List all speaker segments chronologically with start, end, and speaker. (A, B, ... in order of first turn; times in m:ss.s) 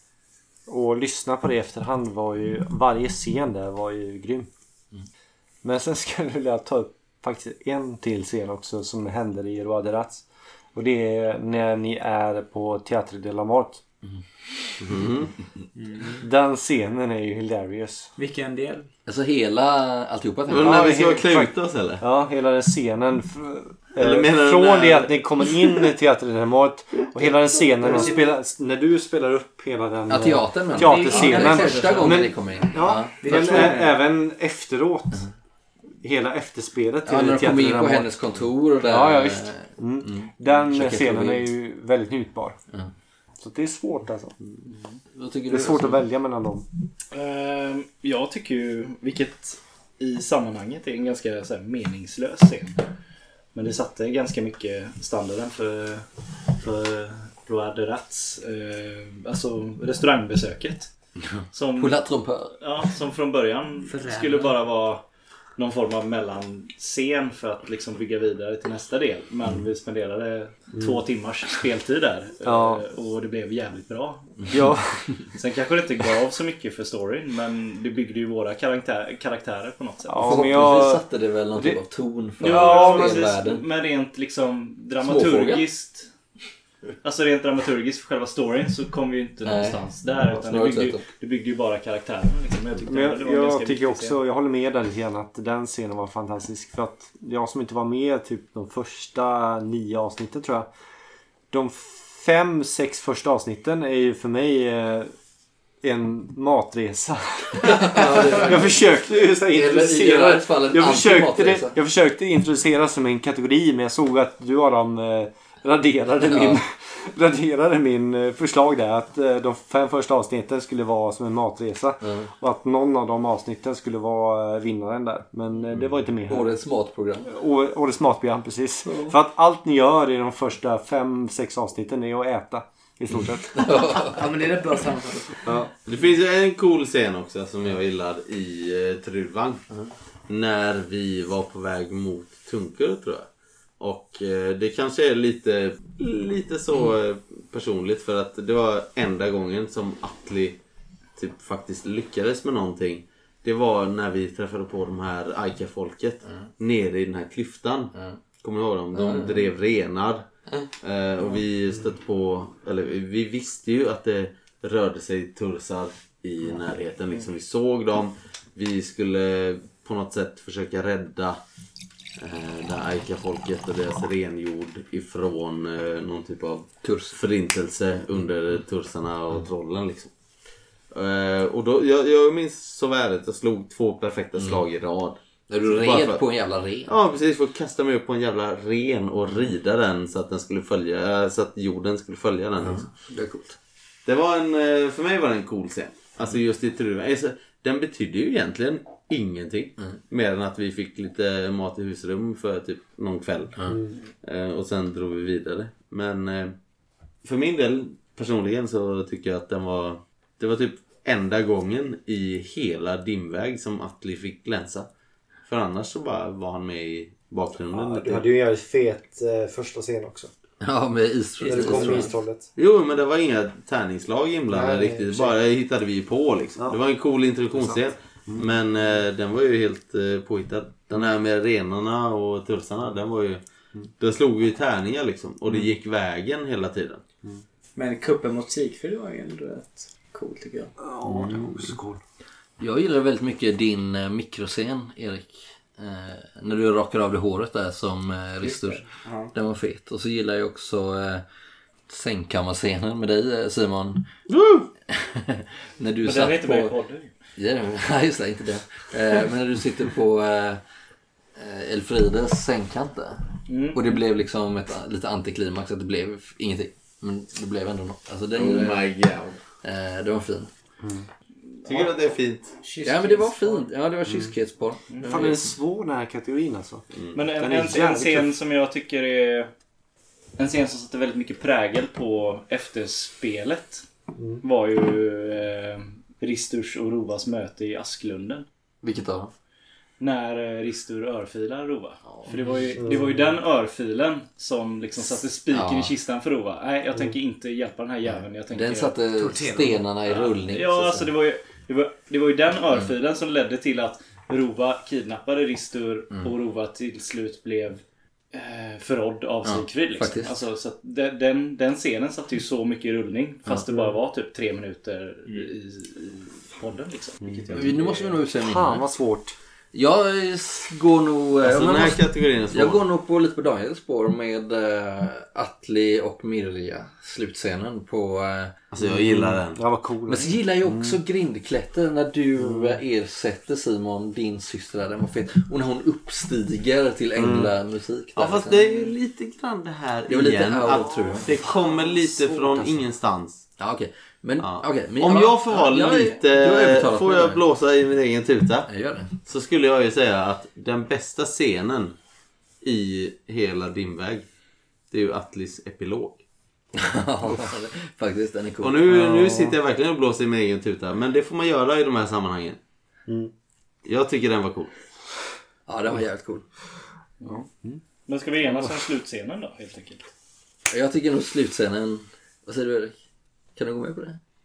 0:00.7-0:04.5 A
0:05.6-0:13.8 A
0:14.8-0:15.3 B
0:15.8-0:16.2 C
0:16.2-0:18.1 A
0:18.2-0:18.9 C
0:19.0-0:21.0 D
0:20.5-0:22.0 B
0:20.5-0:35.2 A
0:24.0-0:25.7 B
0:27.8-0:28.2 C
0:30.1-0:33.8 D
0:30.7-0:32.3 C
0:33.2-0:34.0 C
0:36.0-0:38.1 A
0:37.0-0:41.5 D
0:38.8-0:42.6 A
0:43.4-0:44.4 A
0:45.1-0:46.0 D
0:45.5-0:46.7 A
0:47.1-0:52.8 E
0:53.5-0:56.0 E
0:56.6-1:00.9 E
1:01.2-1:02.6 D
1:01.5-1:02.0 E
1:02.6-1:05.0 E
1:03.8-1:04.6 C
1:05.6-1:14.6 E
1:12.4-1:12.8 A
1:14.5-1:14.8 A
1:15.3-1:20.4 E
1:20.1-1:21.0 A
1:20.2-1:23.6 D
1:22.4-1:26.1 E
1:22.4-1:23.2 A
1:25.0-1:25.6 D
1:27.0-1:34.2 E
1:29.4-1:31.0 D
1:32.8-1:40.7 A
1:41.5-1:45.1 A
1:45.8-2:06.6 A
1:47.6-1:48.8 D
1:49.5-1:51.8 D
1:56.2-1:56.6 D
2:02.0-2:02.3 D
2:06.3-2:07.3 D
2:07.2-2:13.9 A
2:13.6-2:14.2 D
2:13.9-2:15.5 C
2:15.4-2:15.7 A
2:15.8-2:19.6 B
2:20.3-2:23.3 B
2:23.8-2:30.6 B
2:31.2-2:40.3 B
2:37.9-2:38.2 D
2:38.9-2:39.5 D
2:40.8-2:51.4 B
2:52.2-3:00.1 B
2:56.8-2:57.2 D
3:00.9-3:06.2 B
3:04.4-3:04.6 D
3:05.5-3:06.9 D
3:06.9-3:12.9 B
3:12.6-3:13.6 D
3:14.0-3:26.5 B
3:27.2-3:34.9 B
3:35.5-3:38.3 B
3:37.7-3:40.3 A
3:40.6-3:42.1 D
3:41.4-3:42.5 A
3:41.4-3:53.4 B
3:44.5-3:45.4 A
3:47.5-3:48.5 A
3:54.0-3:57.0 B
3:57.8-4:00.7 C
4:00.8-4:02.0 A
4:01.1-4:01.6 B
4:02.6-4:11.2 D
4:08.4-4:09.3 C
4:11.9-4:14.0 D
4:14.3-4:14.7 B
4:14.9-4:16.7 D
4:16.0-4:17.1 E
4:17.4-4:20.6 D
4:21.4-4:23.2 D
4:23.5-4:24.0 E
4:23.7-4:28.8 D
4:28.3-4:29.4 B
4:29.6-4:30.5 D
4:31.6-4:32.6 B
4:32.6-4:33.7 C
4:32.8-4:35.3 D
4:34.9-4:35.3 E
4:35.0-4:36.8 A
4:37.1-4:39.5 E
4:37.4-4:38.3 A
4:40.4-4:43.8 E
4:44.4-4:48.4 E
4:48.8-4:49.3 D
4:50.0-4:58.9 E
4:52.1-4:52.6 D
4:52.8-4:53.3 A
4:55.5-4:55.9 D
4:58.0-5:01.1 D
4:59.1-4:59.8 C
5:00.0-5:18.2 E
5:09.4-5:10.3 D
5:17.3-5:17.7 A
5:17.5-5:18.8 D
5:18.4-5:19.4 A
5:19.7-5:28.5 D
5:21.4-5:22.8 B
5:28.7-5:29.6 B
5:28.8-5:31.0 A
5:30.1-5:38.6 D
5:32.4-5:32.8 A
5:37.2-5:37.5 A
5:38.2-5:43.4 B
5:40.1-5:41.3 D
5:42.0-5:42.8 A
5:43.6-5:47.4 D
5:44.4-5:48.7 B
5:48.6-5:49.1 D
5:49.2-5:51.9 B
5:52.6-5:54.2 B
5:54.9-5:56.2 B
5:56.7-5:58.8 D
5:58.6-6:02.6 B
5:58.9-5:59.6 A
6:03.1-6:03.3 A
6:03.8-6:04.7 B
6:05.7-6:06.4 D
6:07.2-6:07.8 A
6:08.1-6:10.0 E
6:10.7-6:13.0 D
6:13.6-6:14.2 D